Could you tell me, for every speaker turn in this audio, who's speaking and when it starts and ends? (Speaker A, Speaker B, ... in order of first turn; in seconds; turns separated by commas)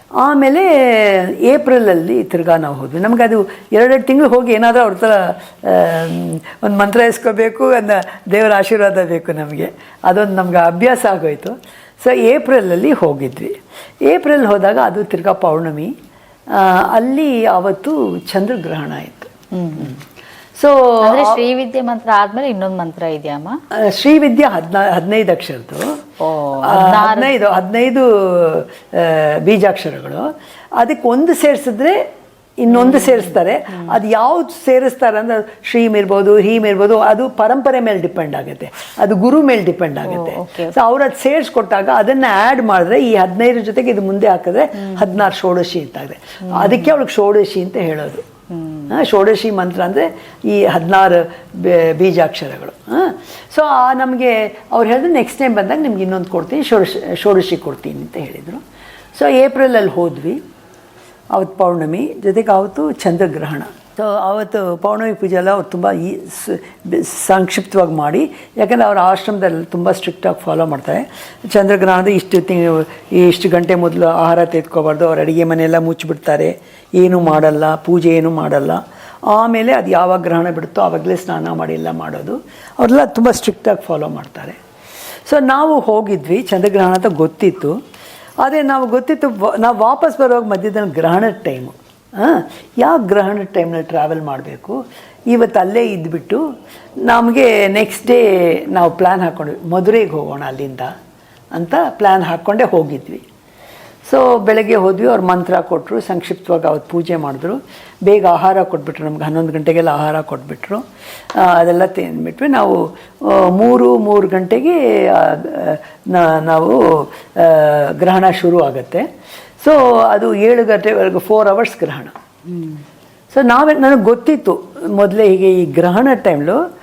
Speaker A: 0.2-15.9, Speaker A: 16.5-20.0, Speaker B: 19.5-20.0, Speaker A: 20.6-21.4, Speaker B: 21.0-23.6, Speaker A: 23.7-26.1, Speaker B: 26.2-27.3, Speaker A: 26.6-32.0, Speaker A: 32.6-48.2, Speaker B: 32.7-33.3, Speaker B: 40.1-40.7, Speaker B: 46.5-46.9, Speaker B: 48.5-48.9, Speaker A: 48.9-58.6, Speaker A: 59.1-60.4, Speaker A: 61.3-84.6, Speaker A: 85.3-87.8, Speaker A: 88.4-96.4, Speaker A: 97.0-100.9, Speaker A: 101.5-103.2, Speaker A: 104.0-119.1, Speaker A: 119.6-122.2, Speaker B: 122.5-122.8, Speaker A: 123.3-126.6